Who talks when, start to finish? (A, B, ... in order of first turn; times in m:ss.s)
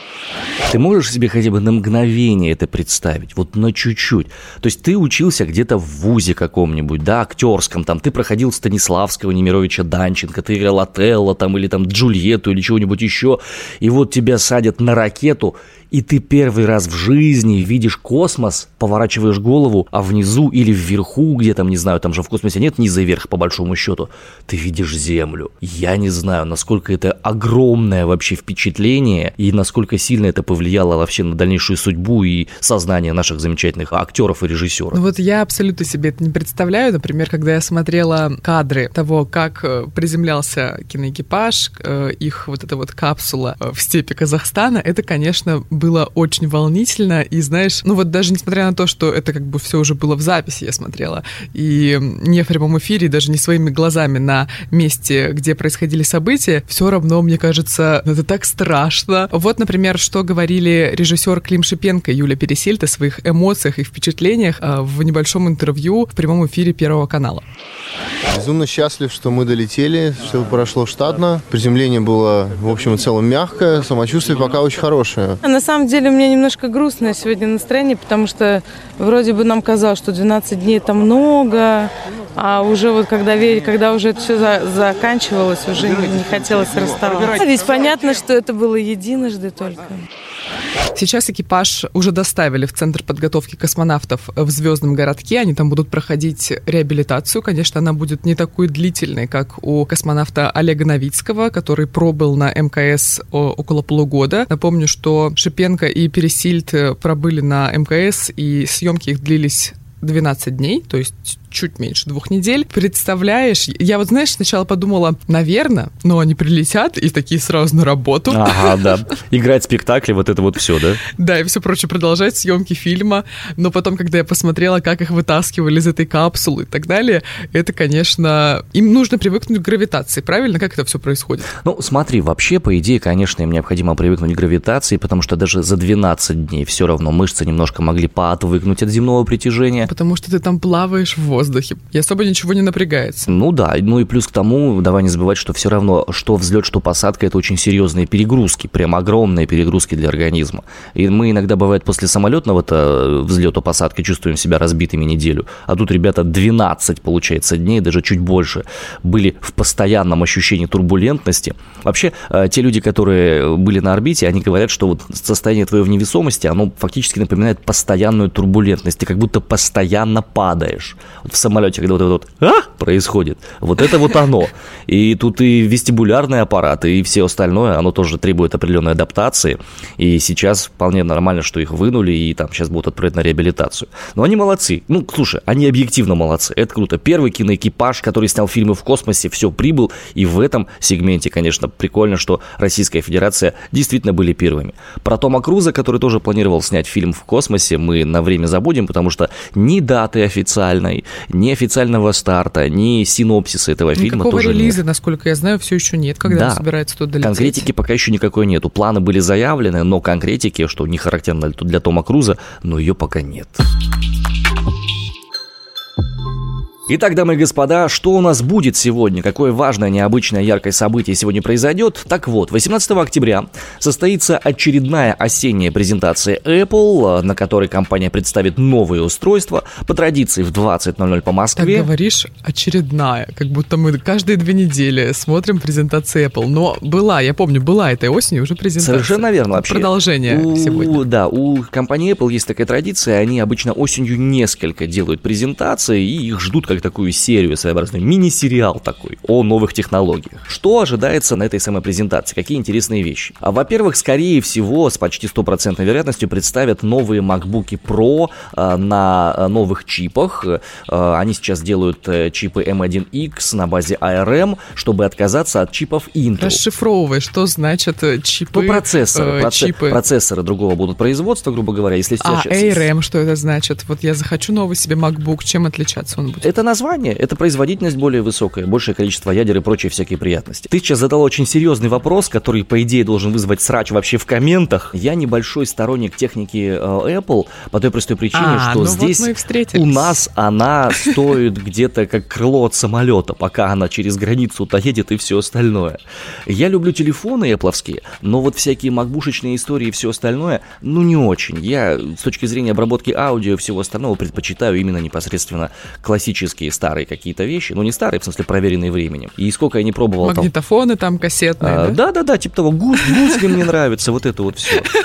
0:00.7-0:35.0 A
0:34.9-1:07.4 B
1:08.3-1:15.4 C
1:15.4-1:30.0 D
1:30.9-1:58.8 B
1:58.3-2:01.0 A
2:01.2-2:11.5 B
2:11.6-2:19.9 A
2:19.8-2:23.3 B
2:23.3-3:24.8 A
3:24.0-3:27.7 B
3:26.2-3:26.6 A
3:27.2-3:33.6 A
3:36.9-3:51.9 A
3:51.6-4:01.0 B
3:58.8-4:26.6 A
4:26.4-4:30.0 B
4:28.5-4:32.9 A
4:32.2-4:36.5 B
4:36.4-5:10.5 A
4:48.3-4:50.2 B
5:10.2-5:12.0 B
5:11.6-5:14.9 A